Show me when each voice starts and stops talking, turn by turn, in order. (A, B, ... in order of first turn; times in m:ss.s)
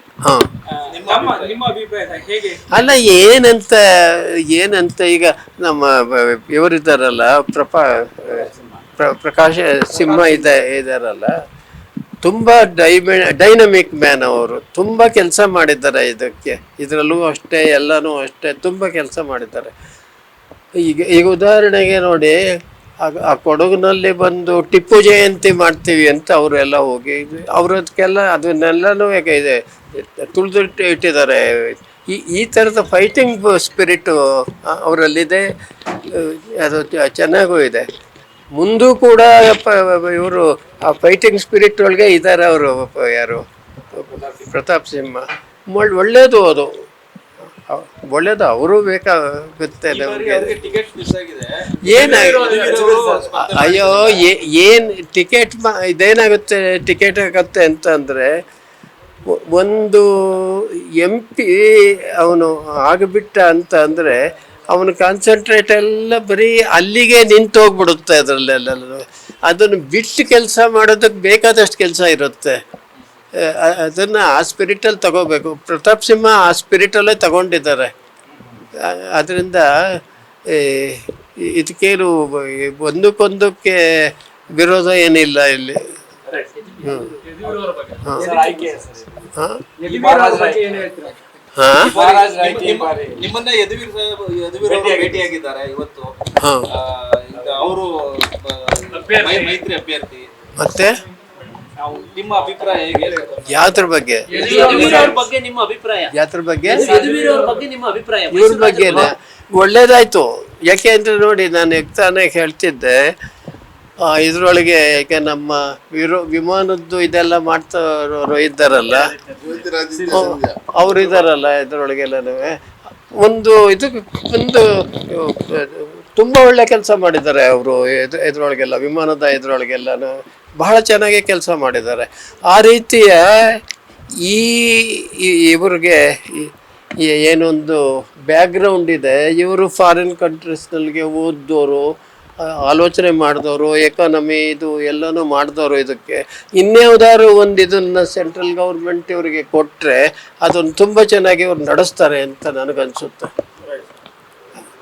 0:00.7-0:02.8 A
0:00.9-0:01.6 B
0:02.7-0:11.3 C
0:10.0-0:10.4 B
0:12.2-0:19.7 C
0:20.8-0:22.4 C
0:23.0-0:35.5 C
0:36.1-0:37.8 C
0:38.5-0:43.4 C
0:43.9-0:46.7 C
0:47.7-0:50.6 C
0:49.9-0:54.3 B
0:51.8-0:52.5 C
0:51.9-0:53.4 A
0:53.5-0:58.3 C
0:59.3-1:12.6 C
1:13.4-1:17.9 C
1:18.8-1:25.8 C
1:26.3-1:29.2 A
1:26.8-1:27.1 C
1:28.2-1:28.8 B
1:29.4-1:29.6 C
1:29.8-1:30.8 B
1:29.8-1:31.2 A
1:31.6-1:31.9 C
1:31.8-1:36.1 B
1:31.8-1:33.2 A
1:34.6-1:35.3 A
1:36.4-1:36.7 C
1:36.7-1:40.3 B
1:37.3-1:37.7 A
1:38.9-1:39.6 A
1:40.6-1:41.0 C
1:41.8-1:43.6 B
1:42.1-1:43.3 A
1:43.4-1:45.1 C
1:44.3-1:45.2 A
1:44.3-1:45.2 B
1:44.3-1:46.1 D
1:46.1-1:47.0 C
1:46.7-1:47.6 A
1:46.7-1:49.1 D
1:46.9-1:47.5 B
1:48.3-1:53.0 C
1:54.0-1:59.1 C
1:58.9-2:00.4 A
1:59.4-2:01.2 B
2:00.1-2:02.5 C
2:03.2-2:13.6 C
2:14.2-2:21.8 C
2:22.4-2:33.3 C